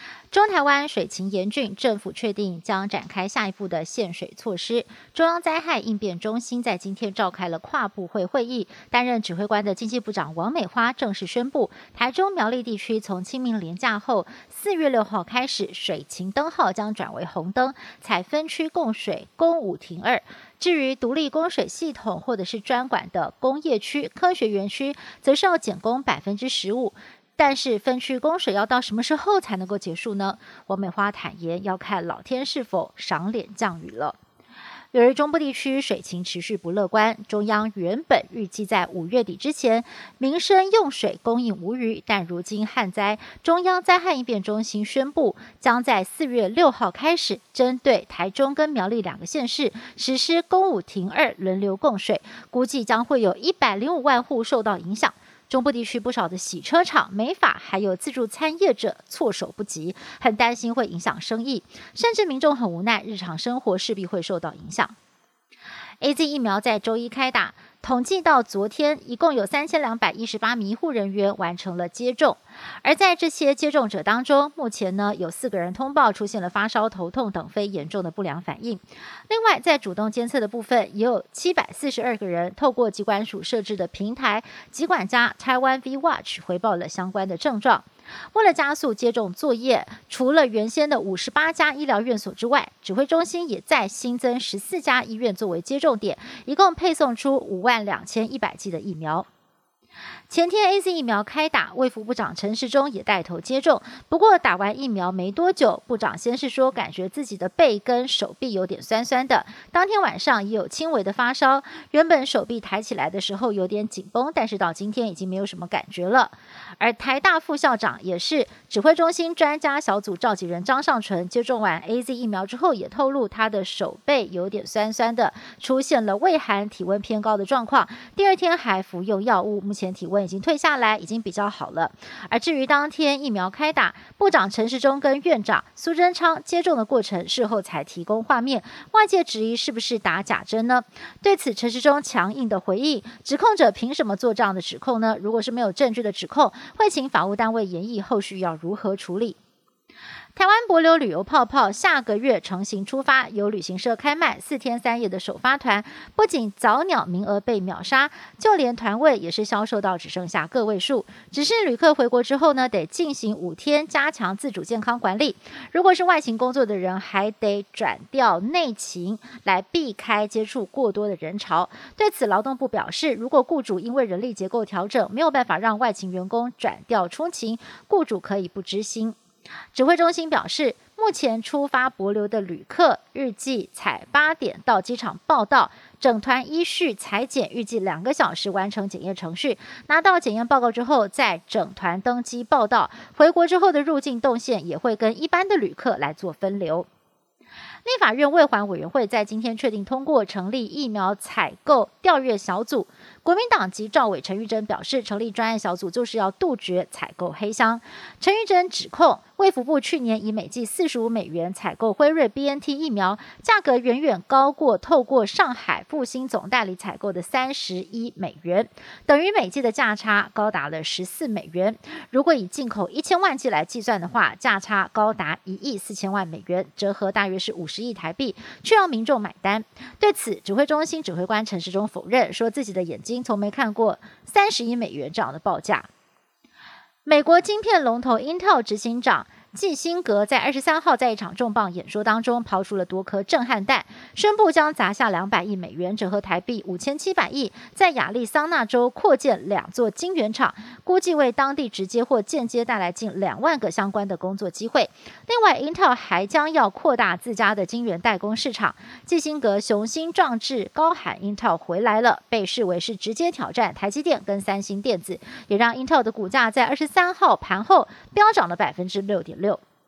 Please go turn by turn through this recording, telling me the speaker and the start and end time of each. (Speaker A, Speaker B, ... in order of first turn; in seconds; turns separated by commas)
Speaker A: 0.3-34.2, Speaker A: 34.9-65.0, Speaker A: 66.0-99.3, Speaker A: 100.3-149.4, Speaker A: 150.4-179.2, Speaker A: 179.7-196.9, Speaker A: 197.8-235.9, Speaker A: 237.1-269.6